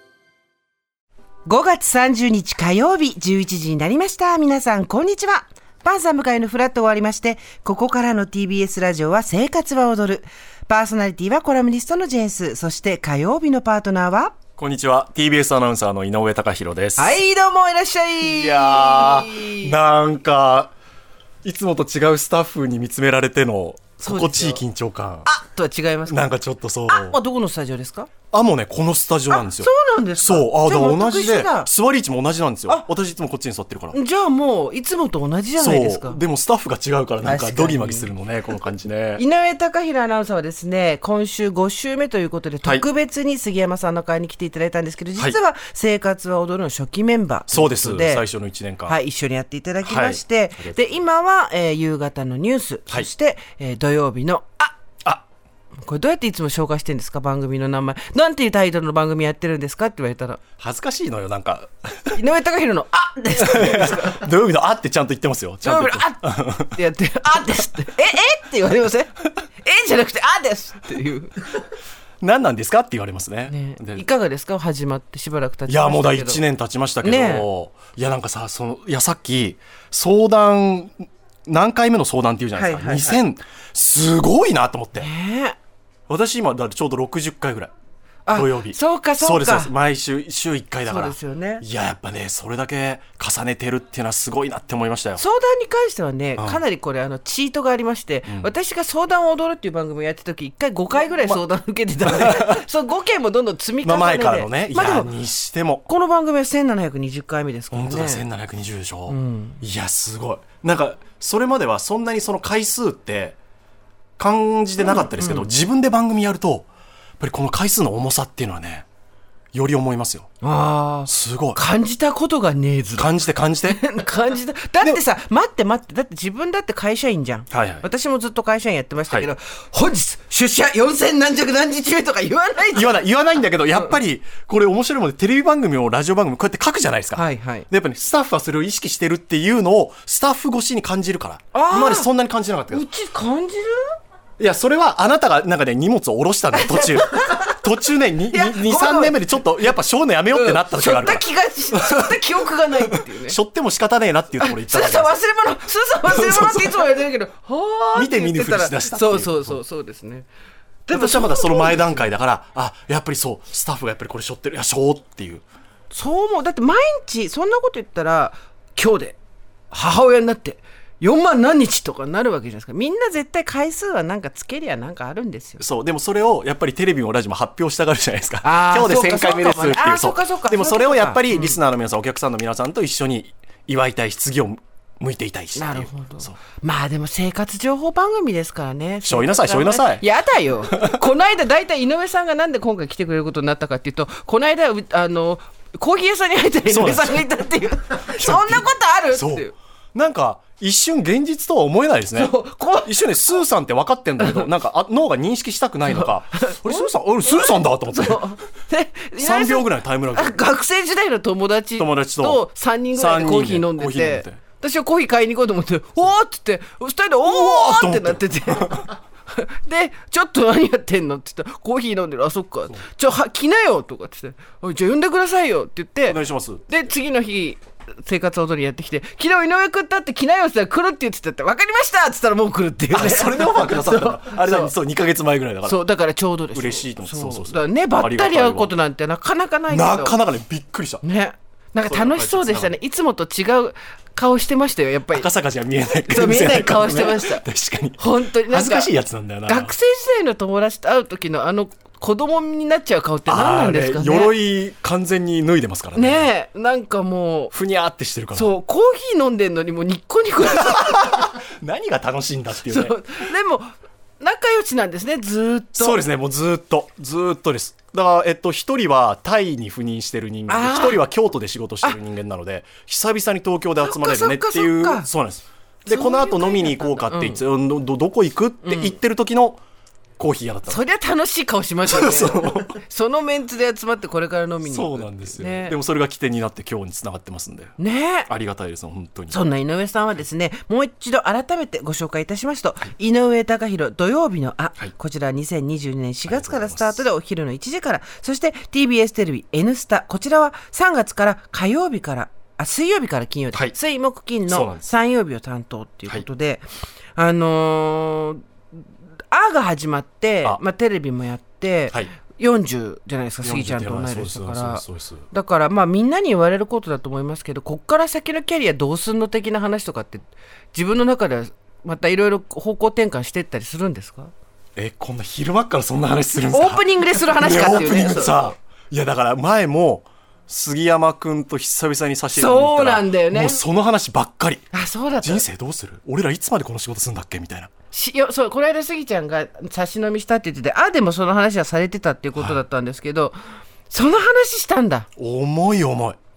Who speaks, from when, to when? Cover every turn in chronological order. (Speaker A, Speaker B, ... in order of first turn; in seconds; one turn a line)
Speaker A: 1.4-14.4
Speaker B: 14.6-17.2
Speaker A: 17.0-19.8
Speaker B: 18.2-20.7
Speaker B: 21.4-25.3
Speaker A: 24.0-24.6
Speaker A: 25.2-26.3
Speaker B: 26.1-27.2
Speaker A: 26.9-28.1
Speaker B: 28.3-34.0
Speaker A: 29.3-31.7
Speaker A: 33.9-36.2
Speaker B: 35.6-39.2
Speaker A: 37.2-38.1
Speaker A: 39.2-48.2
Speaker B: 47.5-49.0
Speaker A: 48.9-54.8
Speaker B: 49.8-51.0
Speaker A: 55.8-60.4
Speaker B: 60.6-62.2
Speaker A: 62.1-64.2
Speaker B: 63.4-66.8
Speaker A: 65.6-71.5
Speaker B: 72.2-74.0
Speaker A: 73.5-76.4
Speaker B: 75.7-85.1
Speaker A: 77.0-77.5
Speaker A: 82.5-83.2
Speaker A: 85.0-85.6
Speaker B: 86.1-87.7
Speaker A: 88.2-89.7
Speaker B: 88.3-95.2
Speaker A: 90.8-91.6
Speaker A: 95.2-105.1
Speaker B: 96.4-96.6
Speaker B: 102.0-102.6
Speaker B: 103.8-105.8
Speaker A: 105.8-108.2
Speaker B: 107.7-113.3
Speaker A: 109.1-109.6
Speaker B: 114.2-116.7
Speaker A: 114.8-115.5
Speaker B: 117.2-118.8
Speaker B: 119.5-120.3
Speaker A: 120.4-123.1
Speaker B: 121.1-121.6
Speaker B: 123.0-123.8
Speaker A: 123.6-133.0
Speaker B: 127.5-127.8
Speaker B: 132.7-142.8
Speaker A: 137.1-137.7
Speaker A: 141.5-142.1
Speaker A: 142.7-143.9
Speaker B: 144.4-152.2
Speaker A: 146.5-147.6
Speaker A: 148.3-149.7
Speaker A: 150.3-153.4
Speaker B: 152.8-155.1
Speaker A: 154.4-160.3
Speaker B: 156.1-157.0
Speaker B: 157.9-159.6
Speaker A: 160.9-162.1
Speaker B: 160.9-165.4
Speaker A: 165.9-169.2
Speaker A: 169.7-175.6
Speaker B: 175.6-186.4
Speaker A: 178.4-181.6
Speaker A: 185.5-199.5
Speaker B: 189.0-190.0
Speaker B: 190.7-191.0
Speaker B: 196.7-197.3
Speaker B: 198.1-208.2
Speaker A: 202.1-203.2
Speaker A: 204.2-204.4
Speaker A: 205.8-234.7
Speaker B: 209.2-210.3
Speaker B: 211.8-212.4
Speaker B: 212.9-214.4
Speaker B: 217.2-218.9
Speaker B: 226.1-226.6
Speaker B: 232.9-235.8
Speaker A: 235.7-240.2
Speaker B: 236.5-238.7
Speaker B: 239.7-241.0
Speaker A: 241.0-245.3
Speaker B: 241.8-242.7
Speaker B: 245.1-249.7
Speaker A: 246.1-247.4
Speaker A: 248.0-248.9
Speaker A: 249.4-254.3
Speaker B: 253.3-256.3
Speaker A: 255.9-257.5
Speaker B: 257.5-258.5
Speaker A: 258.3-261.3
Speaker B: 260.6-262.9
Speaker A: 262.6-263.7
Speaker A: 264.2-266.0
Speaker B: 265.8-279.6
Speaker A: 270.5-271.0
Speaker A: 273.8-275.1
Speaker A: 275.9-277.4
Speaker A: 278.6-278.9
Speaker B: 280.2-280.8
Speaker A: 280.7-285.8
Speaker B: 281.9-282.7
Speaker B: 284.6-287.7
Speaker A: 287.8-288.3
Speaker B: 288.3-289.4
Speaker A: 289.3-306.6
Speaker B: 296.3-297.0
Speaker B: 304.5-304.9
Speaker A: 307.1-308.8
Speaker A: 309.3-324.3
Speaker B: 313.4-315.2
Speaker B: 324.8-337.7
Speaker A: 326.5-328.5
Speaker A: 332.3-333.6
Speaker A: 334.7-335.4
Speaker A: 337.9-343.4
Speaker A: 343.9-345.1
Speaker B: 345.2-346.2